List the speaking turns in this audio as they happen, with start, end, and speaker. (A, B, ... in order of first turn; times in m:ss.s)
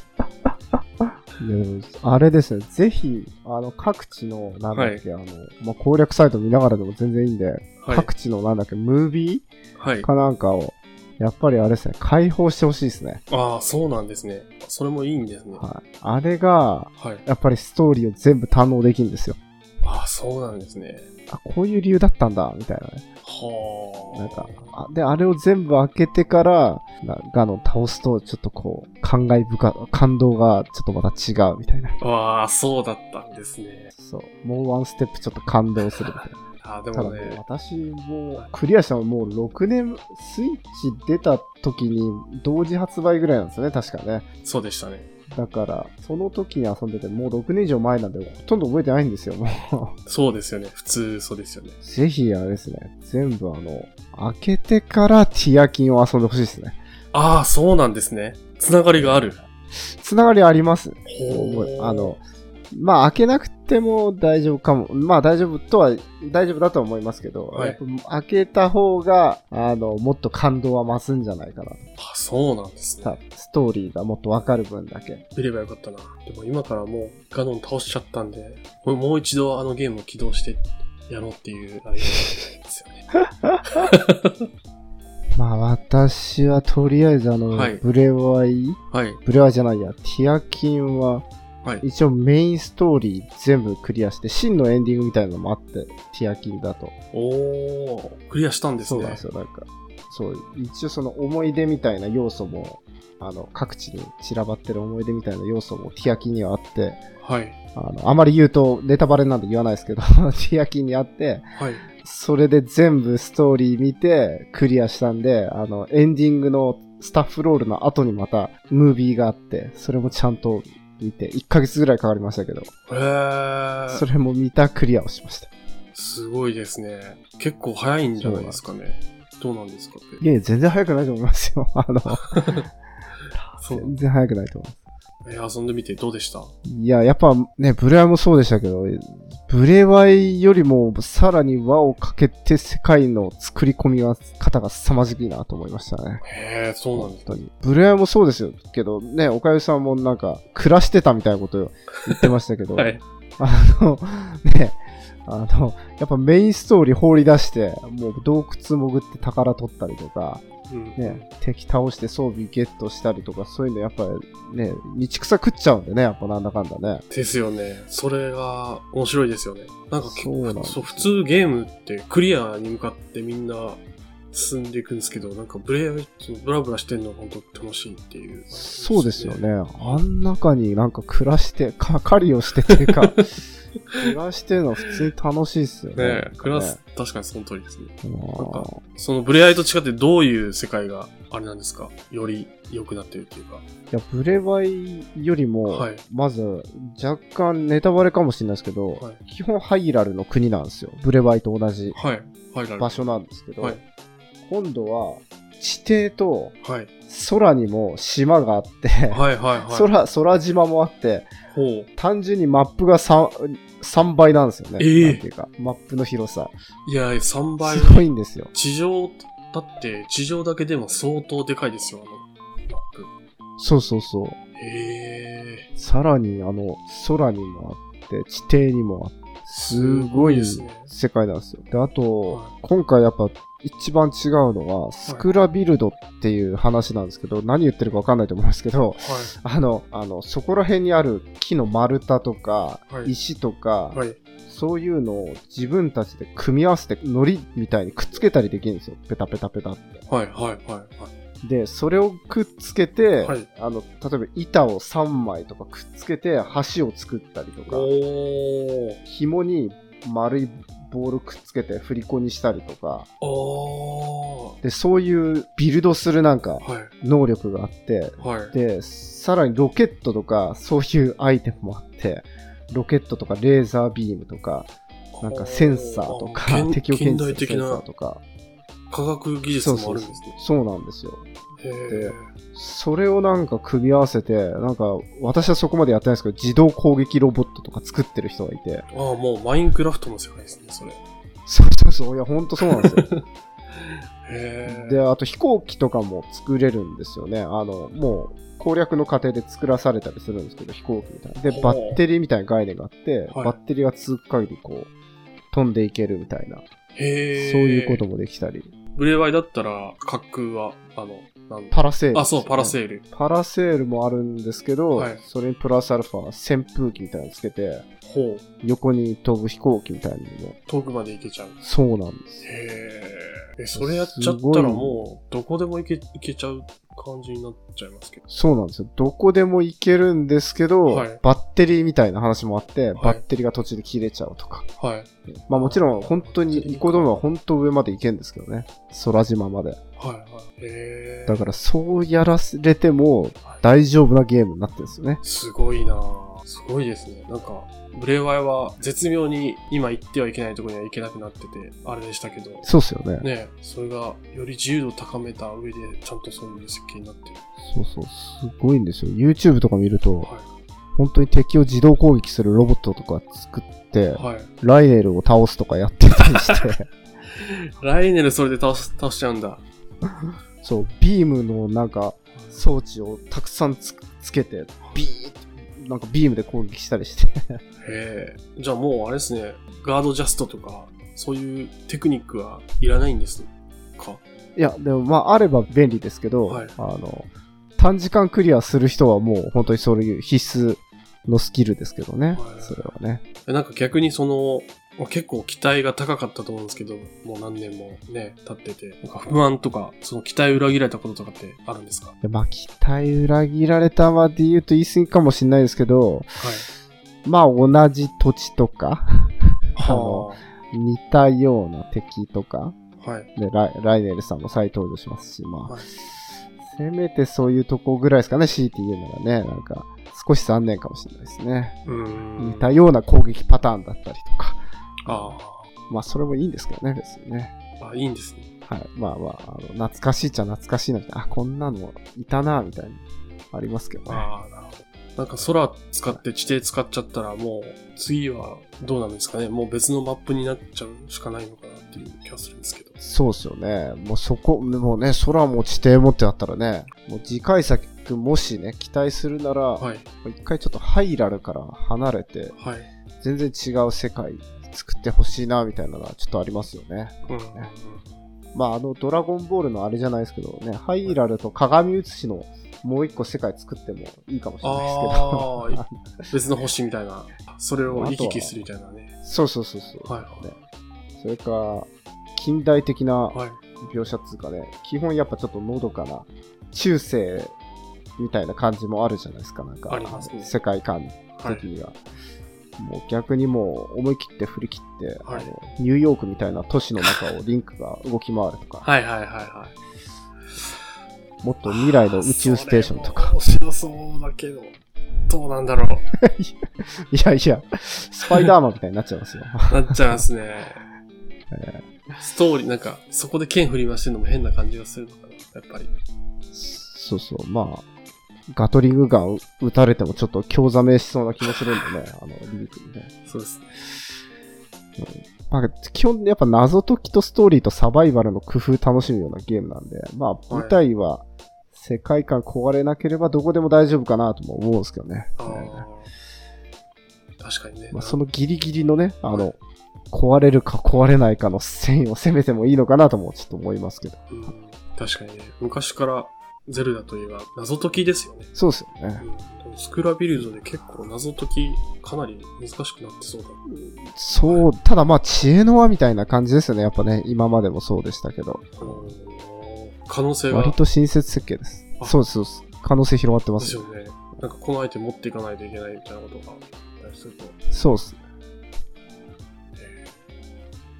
0:01.4-0:09.5 A
0:04.7-0:05.0 B
0:07.8-0:08.1 B
0:09.8-0:10.1 B
0:10.0-0:13.2 A
0:13.3-0:15.6 B
0:15.6-0:19.4 A
0:17.0-0:17.2 B
0:19.8-0:21.1 B
0:21.3-0:23.0 A
0:23.2-0:24.7 B
0:24.1-0:32.0 A
0:32.0-0:33.9 B
0:34.0-0:36.4 A
0:36.0-0:37.4 B
0:36.9-0:44.3 A
0:44.4-0:45.1 B
0:45.3-0:50.0 A
0:50.1-0:51.8 B
0:51.8-0:56.8 A
0:57.1-0:59.4 B
0:58.9-1:11.9 A
1:01.1-1:02.2 B
1:07.5-1:07.8 B
1:12.0-1:13.2 B
1:13.0-1:15.2 A
1:15.4-1:23.1 B
1:23.7-1:24.4 B
1:25.4-1:31.3 A
1:27.5-1:27.8 B
1:28.9-1:29.2 B
1:31.8-1:36.9 A
1:37.1-1:39.2 B
1:38.8-1:47.0 A
1:47.2-1:47.6 B
1:47.8-1:51.5 A
1:51.6-1:51.8 B
1:52.0-2:02.7 A
2:02.9-2:04.0 B
2:03.9-2:05.5 A
2:06.0-2:10.2 B
2:08.2-2:08.6 A
2:10.2-2:12.6 A
2:12.2-2:12.7 B
2:13.4-2:14.8 A
2:13.6-2:14.0 B
2:15.2-2:16.5 B
2:16.7-2:26.2 A
2:26.2-2:27.4 B
2:27.0-2:40.4 A
2:32.1-2:33.0 B
2:40.7-2:41.3 B
2:41.0-2:47.0 A
2:47.1-3:00.0 B
2:50.0-2:51.1 A
2:58.5-3:03.3 A
3:04.0-3:06.8 A
3:06.0-3:13.6 B
3:08.0-3:08.8 A
3:13.9-3:22.0 A
3:15.7-3:16.0 B
3:21.9-3:22.9 B
3:22.8-3:23.8 A
3:24.4-3:26.6 A
3:26.6-3:26.9 B
3:27.1-3:31.3 A
3:29.1-3:29.9 B
3:31.5-3:31.9 B
3:32.0-3:36.6 A
3:34.8-3:35.2 B
3:36.9-3:43.1 B
3:37.6-3:38.5 A
3:43.6-3:44.4 A
3:44.6-3:45.7 B
3:45.8-4:10.0 A
3:49.5-3:50.9 B
3:52.3-3:52.5 B
3:59.0-3:59.4 B
4:03.9-4:04.2 B
4:10.1-4:11.1 B
4:11.4-4:17.9 A
4:13.2-4:13.5 B
4:17.7-4:19.0 B
4:19.0-4:23.1 A
4:23.2-4:24.6 B
4:24.6-4:34.7 A
4:26.6-4:26.9 B
4:28.2-4:28.6 B
4:35.2-4:37.8 B
4:35.2-4:38.2 A
4:38.9-4:40.4 B
4:39.6-4:41.2 A
4:41.6-4:42.3 B
4:41.9-4:48.9 A
4:48.9-4:51.0 B
4:51.5-4:53.1 A
4:52.6-4:55.0 B
4:54.6-5:04.9 A
5:01.5-5:02.0 B
5:03.3-5:03.6 B
5:05.5-5:06.6 A
5:07.0-5:08.0 B
5:07.4-5:08.7 A
5:09.0-5:13.0 B
5:11.7-5:17.9 A
5:14.9-5:15.2 B
5:18.0-5:18.4 B
5:18.6-5:20.6 A
5:20.7-5:21.6 B
5:21.6-5:22.4 A
5:22.4-5:28.3 B
5:23.8-5:25.0 A
5:28.3-5:34.7 A
5:30.9-5:31.2 B
5:33.0-5:33.2 B
5:34.8-5:37.2 B
5:35.3-5:39.8 A
5:40.0-5:41.5 B
5:41.3-5:45.2 A
5:45.2-5:52.7 B
5:52.6-5:53.3 A
5:53.2-5:57.4 B
5:57.6-6:00.3 A
6:01.0-6:06.9 A
6:04.1-6:04.5 B
6:06.4-6:06.7 B
6:07.4-6:09.6 B
6:10.6-6:17.6 A
6:17.8-6:24.2 B
6:24.6-6:33.2 A
6:26.5-6:26.8 B
6:32.4-6:32.9 B
6:33.5-6:42.1 B
6:42.2-6:46.4 A
6:46.4-6:46.7 B
6:47.2-6:52.8 A
6:49.8-6:50.4 B
6:53.0-6:53.3 B
6:53.4-6:55.8 A
6:56.6-7:05.4 A
7:01.9-7:02.8 B
7:05.1-7:05.7 B
7:05.9-7:07.6 A
7:07.8-7:08.5 B
7:08.7-7:14.3 A
7:14.1-7:23.0 B
7:23.0-7:32.6 A
7:29.8-7:30.1 B
7:32.5-7:32.9 B
7:33.2-7:37.7 A
7:37.3-7:38.1 B
7:38.5-7:45.9 A
7:44.6-7:49.1 B
7:47.8-7:48.6 A
7:49.2-7:50.6 A
7:50.0-7:50.5 B
7:51.2-7:57.5 A
7:53.3-7:53.6 B
7:58.2-8:02.0 A
7:59.9-8:00.5 B
8:01.4-8:01.7 B
8:02.8-8:08.9 A
8:05.2-8:05.5 B
8:08.8-8:09.8 B
8:11.4-8:13.4 A
8:11.7-8:14.8 B
8:15.3-8:16.0 B
8:16.2-8:20.2 A
8:19.7-8:20.8 B
8:21.5-8:21.8 A
8:22.2-8:25.9 B
8:26.5-8:27.8 A
8:28.5-8:33.1 A
8:33.3-8:33.7 B
8:35.0-8:45.9 A
8:40.5-8:40.8 B
8:45.4-8:46.1 B
8:47.4-8:48.2 B
8:47.9-8:49.6 A
8:50.1-8:54.2 A
8:54.3-8:58.5 B
8:58.6-8:59.3 A
8:59.2-9:03.6 B
9:03.7-9:09.1 A
9:04.4-9:04.7 B
9:08.8-9:10.8 B
9:10.5-9:13.8 A
9:13.6-9:17.6 B
9:17.7-9:18.2 A
9:19.8-9:20.1 B